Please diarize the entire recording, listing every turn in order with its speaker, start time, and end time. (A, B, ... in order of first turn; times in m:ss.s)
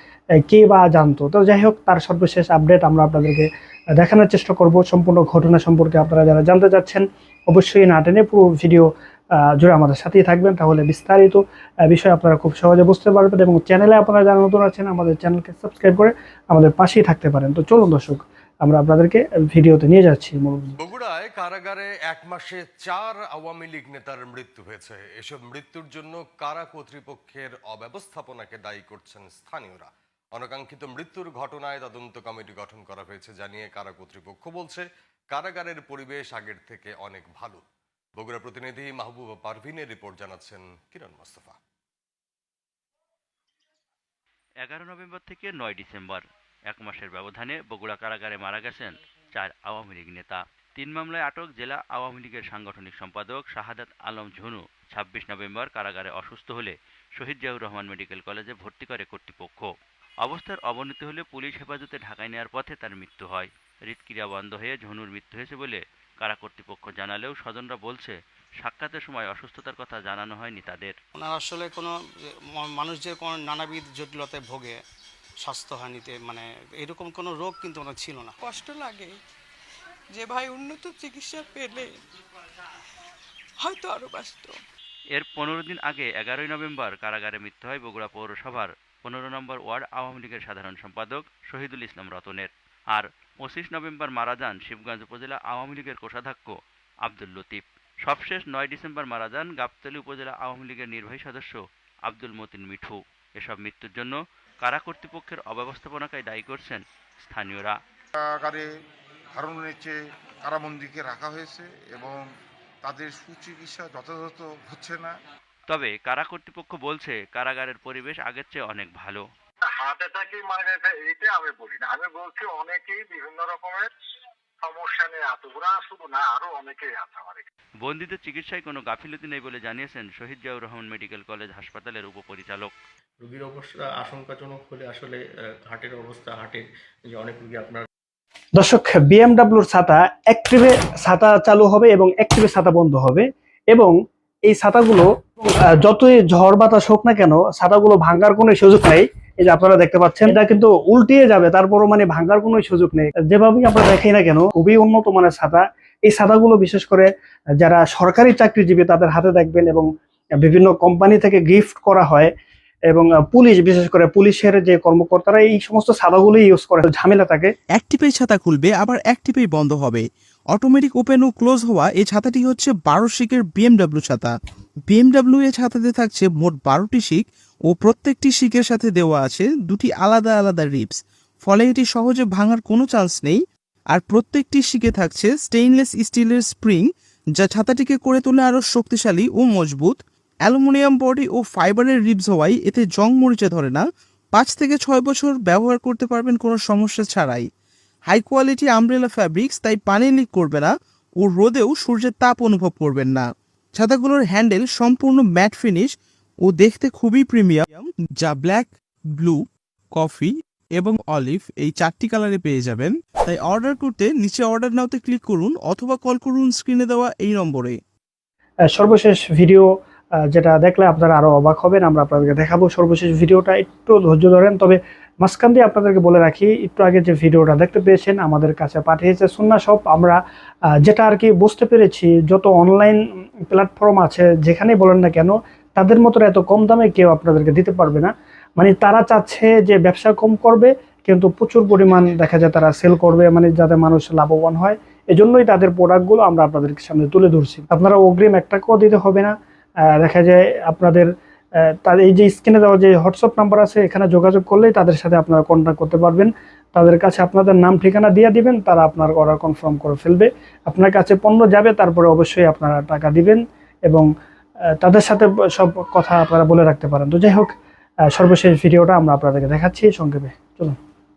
0:00.4-0:08.9 A
0:09.4-0:20.8 A
0:20.8-0:37.6 B
0:38.2-0:41.6 B
0:44.6-0:59.7 C
1:00.2-1:10.9 C
1:11.2-1:11.9 D
1:12.6-1:14.8 D
1:15.4-1:18.3 D
1:18.4-1:19.2 E
1:20.1-1:22.0 E
1:23.6-1:24.6 E
1:25.2-1:36.5 C
1:37.0-1:47.7 C
1:48.1-1:48.7 F
1:49.3-1:52.3 F
1:52.8-1:55.1 F
1:55.7-1:59.2 C
1:59.7-2:03.9 G
2:04.6-2:07.4 G
2:07.8-2:12.7 C
2:13.2-2:17.8 H
2:18.6-2:23.9 A
2:24.4-2:37.1 A
2:37.6-2:39.9 A
2:40.4-2:42.3 A
2:42.9-2:47.5 A
2:47.7-2:54.3 I
2:54.9-3:03.4 I
3:03.9-3:17.4 I
3:18.1-3:25.9 I
3:26.4-3:29.4 I
3:30.0-3:37.8 I
3:38.7-3:39.7 A
3:40.3-3:50.2 A
3:50.8-4:09.3 A
4:10.0-4:11.1 A
4:11.8-4:24.1 A
4:24.8-4:27.5 A
4:28.1-4:30.7 A